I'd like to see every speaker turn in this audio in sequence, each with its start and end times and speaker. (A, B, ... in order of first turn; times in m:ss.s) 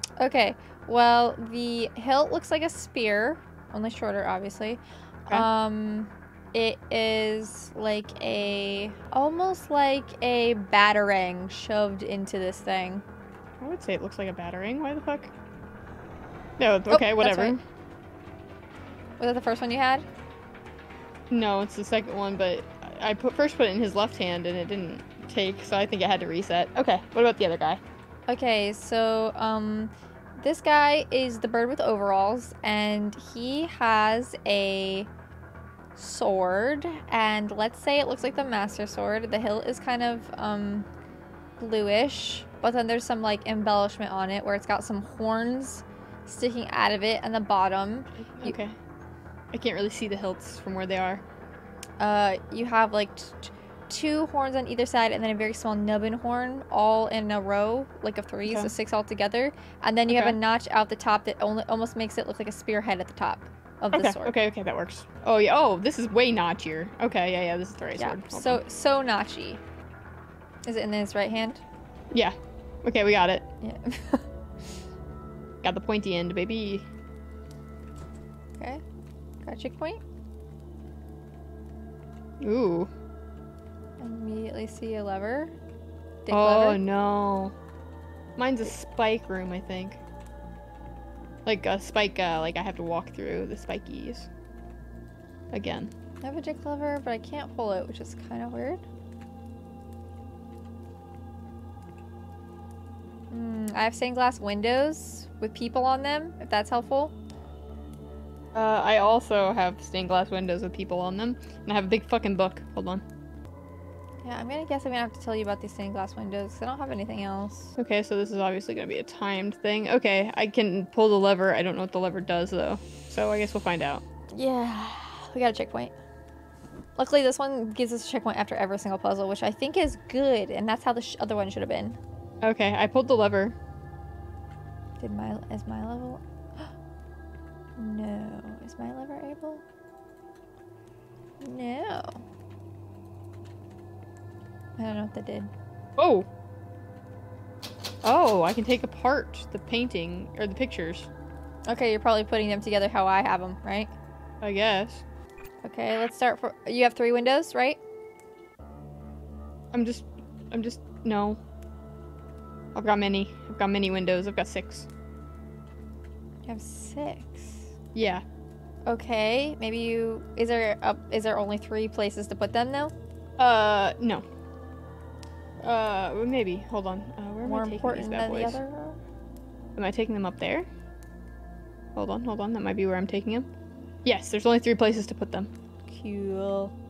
0:00.2-0:13.0 A
0:13.6-0:15.3 B
0:16.6-0:17.6 B
0:16.9-0:17.6 A
0:19.2-0:20.1 A
0:21.3-0:27.8 B
0:28.3-0:35.1 A
0:36.0-0:40.9 A
0:41.6-0:48.6 A
0:48.3-0:48.8 B
0:49.5-0:51.2 B
0:52.0-1:04.4 A
1:00.1-1:00.4 B
1:03.9-1:08.6 B
1:08.0-1:09.6 A
1:10.6-1:11.6 A
1:12.1-1:13.5 B
1:13.6-1:14.3 A
1:15.6-1:16.9 B
1:19.4-1:20.0 A
1:22.4-1:22.9 B
1:24.0-1:25.5 A
1:26.3-1:26.8 A
1:26.3-1:27.5 B
1:28.4-1:30.0 B
1:31.4-1:34.3 B
1:35.5-1:35.9 B
1:36.2-1:38.8 A
1:43.3-1:47.1 A
1:48.5-1:53.0 B
1:54.2-1:57.8 A
1:57.8-2:04.0 B
2:04.3-2:06.0 A
2:07.0-2:12.0 A
2:12.4-2:13.6 B
2:15.0-2:16.7 A
2:17.8-2:19.6 A
2:21.4-2:22.2 A
2:24.8-2:25.5 A
2:26.0-2:26.3 B
2:28.0-2:31.1 B
2:31.7-2:33.9 A
2:34.4-2:35.0 B
2:35.6-2:37.8 A
2:39.7-2:41.4 B
2:42.7-2:44.9 B
2:46.5-2:47.7 A
2:47.9-2:48.2 B
2:48.9-2:52.9 A
2:53.4-2:54.2 B
2:55.6-2:58.6 B
2:57.4-2:59.0 A
2:59.8-3:00.7 B
3:02.0-3:03.5 B
3:04.0-3:05.5 B
3:05.9-3:06.7 A